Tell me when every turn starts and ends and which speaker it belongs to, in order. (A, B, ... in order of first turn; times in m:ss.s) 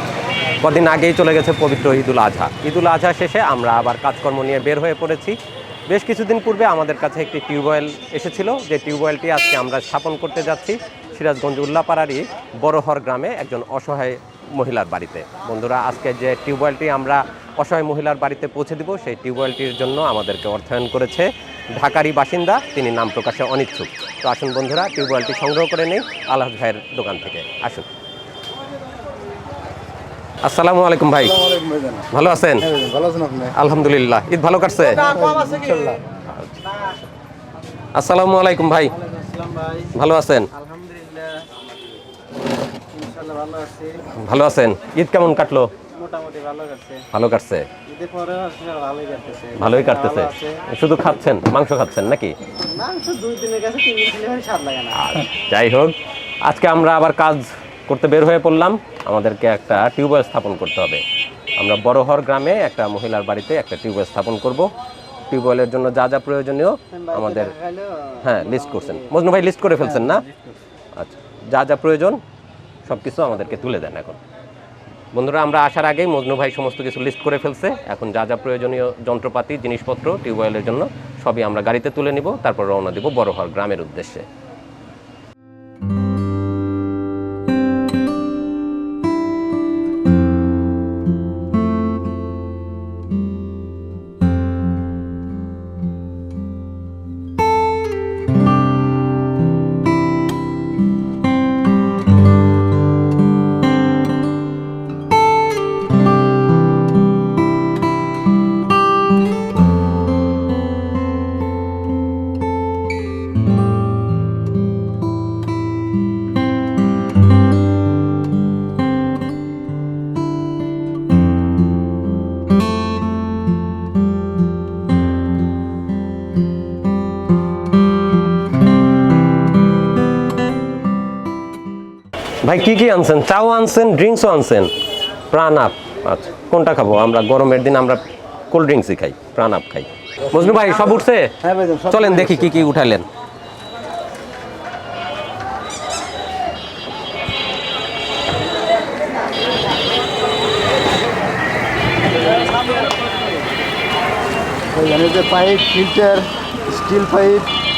0:00.6-0:27.9 A
0:30.4-0:31.5 A
0:31.4-0:32.1 B
0:32.1-0:32.8 A
0:32.8-0:33.5 B
0:33.4-0:35.1 A
0:35.1-0:36.0 B
0:36.3-0:36.6 A
0:37.9-0:39.0 A
0:39.8-0:40.6 A
0:43.0-0:43.9 C
0:44.0-0:45.7 A
0:46.0-0:47.0 C
0:47.1-0:47.8 A
0:48.0-0:49.4 C
0:49.5-0:52.4 A
0:52.8-0:54.8 C
0:54.9-1:01.0 A
1:01.6-1:04.7 A
1:05.3-1:10.3 A
1:11.0-1:12.2 A
1:12.8-1:14.2 A
1:15.1-1:24.2 A
2:12.4-2:14.7 A
2:15.3-2:23.1 A
2:21.4-2:22.5 B
2:34.7-2:37.5 B